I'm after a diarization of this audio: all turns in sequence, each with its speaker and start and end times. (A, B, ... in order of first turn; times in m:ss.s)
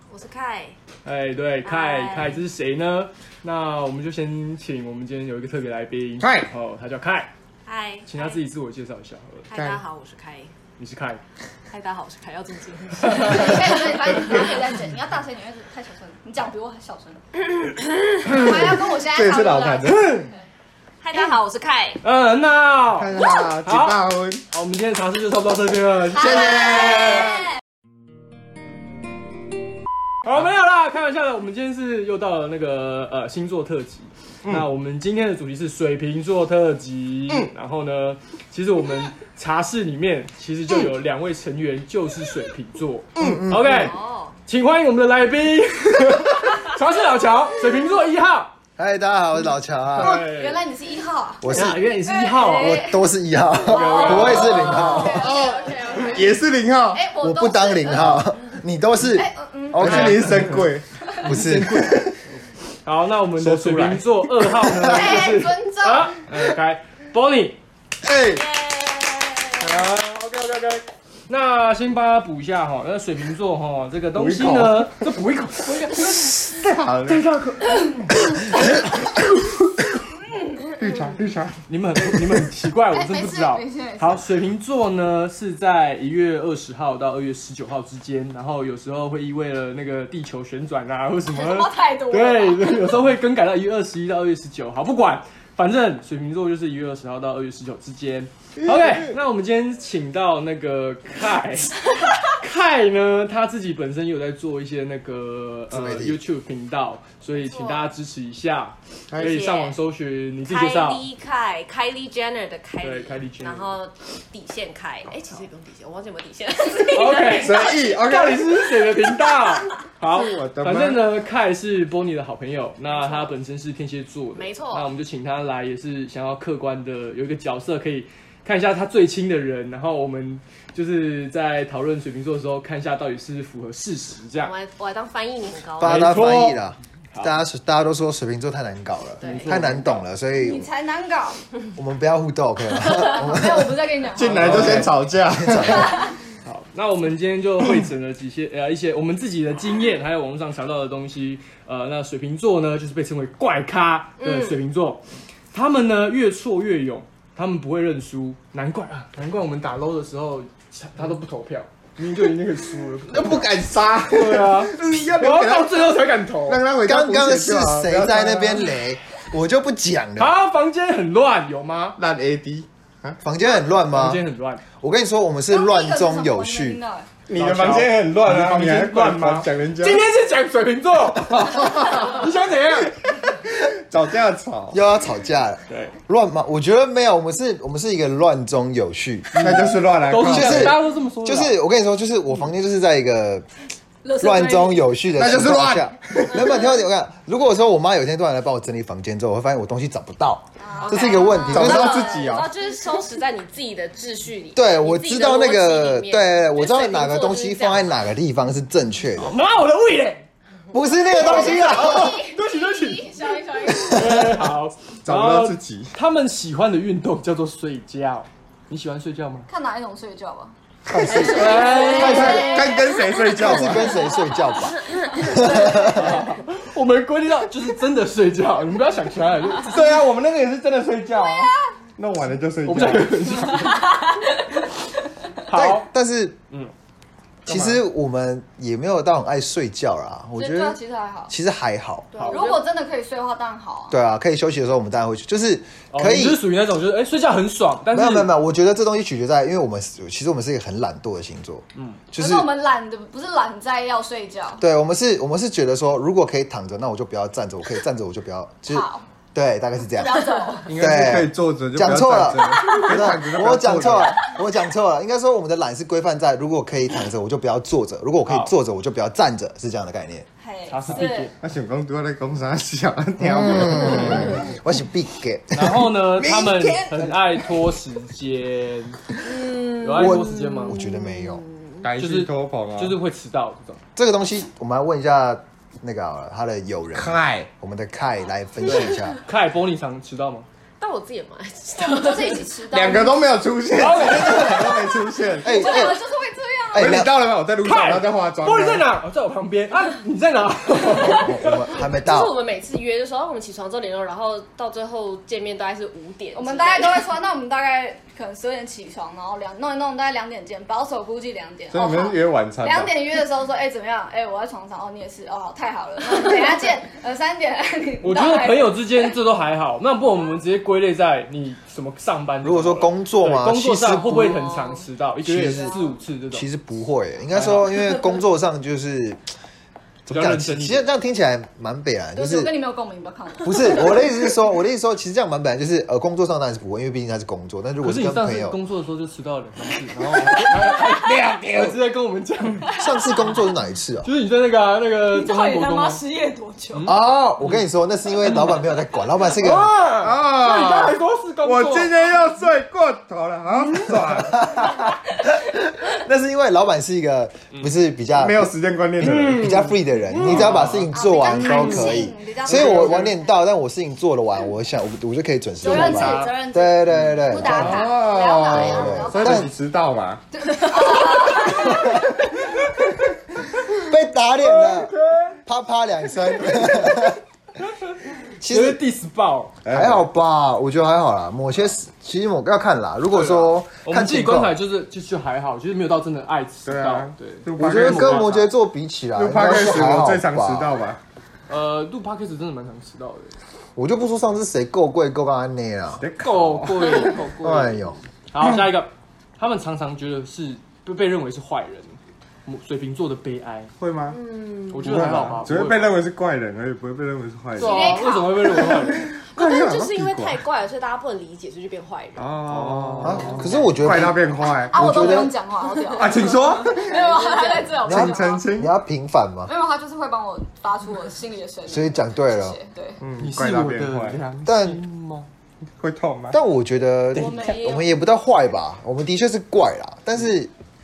0:00.1-0:00.8 A
0:01.0-0:07.3 B
0:01.6-0:02.4 A
0:06.2-0:06.5 C
0:07.6-0:08.4 A
0:08.0-0:09.5 B
0:09.5-0:10.5 A
0:09.5-0:09.8 C
0:10.8-0:11.2 B
0:11.7-0:14.3 A
0:13.1-0:17.2 D
0:18.2-0:20.3 C
0:18.2-0:20.2 D
0:21.0-0:22.0 A
0:22.0-0:26.8 B
0:22.9-0:24.4 C
0:26.1-0:27.5 C
0:27.0-0:27.4 A
0:30.2-0:48.5 B
0:43.2-0:43.8 E
0:43.6-0:44.3 A
0:48.8-0:50.2 E
0:49.9-0:50.6 B
0:50.0-0:53.1 D
0:51.4-0:51.9 E
0:51.5-0:52.8 B
0:52.4-0:55.3 E
0:53.7-0:55.1 B
0:53.7-0:55.9 A
0:53.7-0:58.2 D
0:53.9-0:54.2 C
0:55.1-0:57.1 C
0:57.2-1:00.5 E
0:59.0-1:00.1 D
0:59.8-1:00.8 C
0:59.8-1:00.6 B
1:01.2-1:02.1 B
1:01.2-1:02.1 E
1:02.8-1:07.6 B
1:03.4-1:04.8 C
1:04.8-1:06.3 D
1:08.0-1:08.4 C
1:08.3-1:09.6 A
1:09.6-1:16.1 B
1:14.1-1:15.0 C
1:15.6-1:16.4 D
1:16.1-1:17.2 C
1:17.0-1:18.0 B
1:19.1-1:19.7 C
1:20.8-1:22.4 C
1:21.7-1:41.8 B
1:22.9-1:24.2 D
1:31.3-1:33.0 D
1:42.3-1:51.0 B
1:45.7-1:46.2 E
1:47.3-1:47.9 A
1:49.1-1:49.4 C
1:49.2-1:49.7 A
1:50.4-1:58.0 A
1:52.8-1:53.8 B
1:56.9-2:14.5 B
1:57.1-1:58.7 C
2:00.1-2:01.0 C
2:02.9-2:03.3 A
2:04.4-2:04.9 A
2:14.4-2:16.1 A
2:15.8-2:20.7 E
2:15.8-2:16.6 B
2:17.1-2:17.4 B
2:19.2-2:19.6 A
2:19.2-2:20.0 B
2:20.3-2:21.4 D
2:21.8-2:26.0 E
2:22.8-2:24.9 D
2:24.1-2:26.0 C
2:24.3-2:24.9 B
2:25.6-2:26.1 D
2:26.4-2:43.5 B
2:34.2-2:34.6 A
2:42.6-2:48.7 C
2:44.1-2:46.6 B
2:46.8-2:50.3 E
2:50.2-2:52.0 B
2:52.0-2:53.2 C
2:53.2-2:54.2 E
2:53.8-2:54.6 B
2:54.8-2:56.8 E
2:55.5-2:57.1 D
2:57.3-3:00.0 C
2:57.3-3:03.3 B
3:01.3-3:02.3 C
3:03.1-3:04.8 C
3:04.7-3:09.4 E
3:05.7-3:06.0 B
3:09.3-3:11.6 B
3:09.3-3:10.8 C
3:10.2-3:13.5 E
3:14.0-3:14.9 D
3:14.2-3:22.1 E
3:15.2-3:16.7 C
3:20.6-3:22.3 D
3:20.8-3:28.0 A
3:21.5-3:22.5 C
3:24.5-3:29.3 E
3:29.2-3:30.2 B
3:30.7-3:32.2 E
3:30.9-3:34.2 D
3:32.0-3:33.0 B
3:33.7-3:34.2 E
3:33.9-3:39.5 B
3:35.0-3:35.9 C
3:39.5-3:40.5 D
3:40.9-3:41.4 E
3:40.9-3:43.9 C
3:41.0-3:42.8 A
3:41.1-3:44.3 D
3:41.3-3:42.5 B
3:43.4-3:46.2 E
3:44.7-3:45.4 A
3:45.1-3:46.2 D
3:45.8-3:49.9 B
3:49.7-3:53.7 C
3:52.6-3:53.8 B
3:53.7-3:54.2 D
3:55.4-3:55.9 B
3:55.5-3:56.4 E
3:57.4-4:02.1 E
3:57.5-3:57.8 C
4:00.4-4:01.3 D
4:02.1-4:02.6 A
4:02.1-4:02.4 B
4:02.3-4:04.0 D
4:03.9-4:06.4 E
4:05.9-4:08.3 B
4:07.9-4:12.5 E
4:11.7-4:12.0 B
4:12.2-4:14.6 D
4:14.6-4:30.2 E
4:18.7-4:19.0 D
4:20.0-4:20.7 D
4:20.7-4:24.1 C
4:28.2-4:28.5 B
4:30.4-4:31.2 D
4:30.7-4:31.3 B
4:30.9-4:31.3 A
4:31.4-4:34.5 C
4:33.2-4:35.8 E
4:35.5-4:39.1 B
4:36.3-4:36.9 C
4:39.2-4:41.8 A
4:39.8-4:40.8 B
4:39.9-4:41.4 E
4:41.8-4:43.0 C
4:42.0-4:43.8 B
4:44.0-4:49.2 E
4:46.9-4:47.5 C
4:48.6-4:50.4 B
4:50.8-4:52.6 A
4:51.8-4:53.4 D
4:52.7-4:55.9 C
4:53.7-4:54.7 B
4:55.4-4:57.0 D
4:55.4-4:56.0 E
4:56.7-4:57.1 E
4:56.7-4:58.9 C
4:57.6-5:01.7 B
5:01.0-5:02.4 E
5:01.8-5:07.1 A
5:06.3-5:18.8 D
5:11.7-5:12.9 C
5:18.0-5:26.4 B
5:22.4-5:24.4 E
5:24.3-5:24.8 A
5:25.2-5:25.8 E
5:25.5-5:25.9 D
5:26.3-5:29.2 E
5:27.3-5:27.9 B
5:30.0-5:32.5 E
5:30.1-5:30.9 B
5:32.2-5:34.2 D
5:33.4-5:38.6 E
5:37.8-5:42.7 B
5:41.1-5:41.7 C
5:42.7-5:43.4 D
5:42.8-5:44.1 E
5:44.0-5:46.0 B
5:45.1-5:46.9 D
5:46.7-5:47.6 B
5:46.8-5:49.8 E
5:48.2-5:48.5 B
5:49.3-5:52.2 B
5:50.0-5:54.5 C
5:54.2-6:07.9 E
5:58.1-6:00.8 C
5:59.1-6:00.9 B
6:00.9-6:03.4 D
6:01.4-6:01.9 B
6:02.5-6:02.8 C
6:05.6-6:09.5 D
6:05.6-6:06.3 C
6:07.4-6:10.2 C
6:08.4-6:09.5 E
6:10.3-6:12.1 D
6:11.5-6:12.1 E
6:13.6-6:14.9 E
6:14.8-6:15.3 B
6:15.4-6:17.2 E
6:18.4-6:18.8 E
6:18.5-6:19.6 B
6:19.6-6:20.0 C
6:19.7-6:24.5 E
6:23.1-6:28.5 B
6:26.6-6:28.3 C
6:27.6-6:30.7 E
6:29.1-6:31.0 C
6:31.5-6:33.4 B
6:33.8-6:36.0 E
6:36.0-6:37.1 C
6:36.2-6:43.7 B
6:37.4-6:38.0 E
6:43.8-6:44.2 C
6:44.1-6:45.2 A
6:44.7-6:46.0 B
6:44.8-6:47.9 C
6:47.6-6:48.4 A
6:47.6-6:49.0 B
6:47.6-6:48.5 D
6:48.6-6:50.4 C
6:49.2-6:52.4 A
6:52.2-6:55.2 C
6:52.4-6:53.7 B
6:53.0-6:55.3 E
6:54.6-6:58.5 D
6:55.9-6:57.0 C
6:56.3-6:57.7 A
6:57.8-6:59.5 E
6:57.9-6:58.7 C
6:59.5-7:03.0 D
7:01.7-7:02.6 E
7:03.0-7:04.4 C
7:03.2-7:05.3 B
7:04.4-7:04.8 E
7:05.8-7:06.4 C
7:06.3-7:10.5 E
7:07.1-7:07.9 D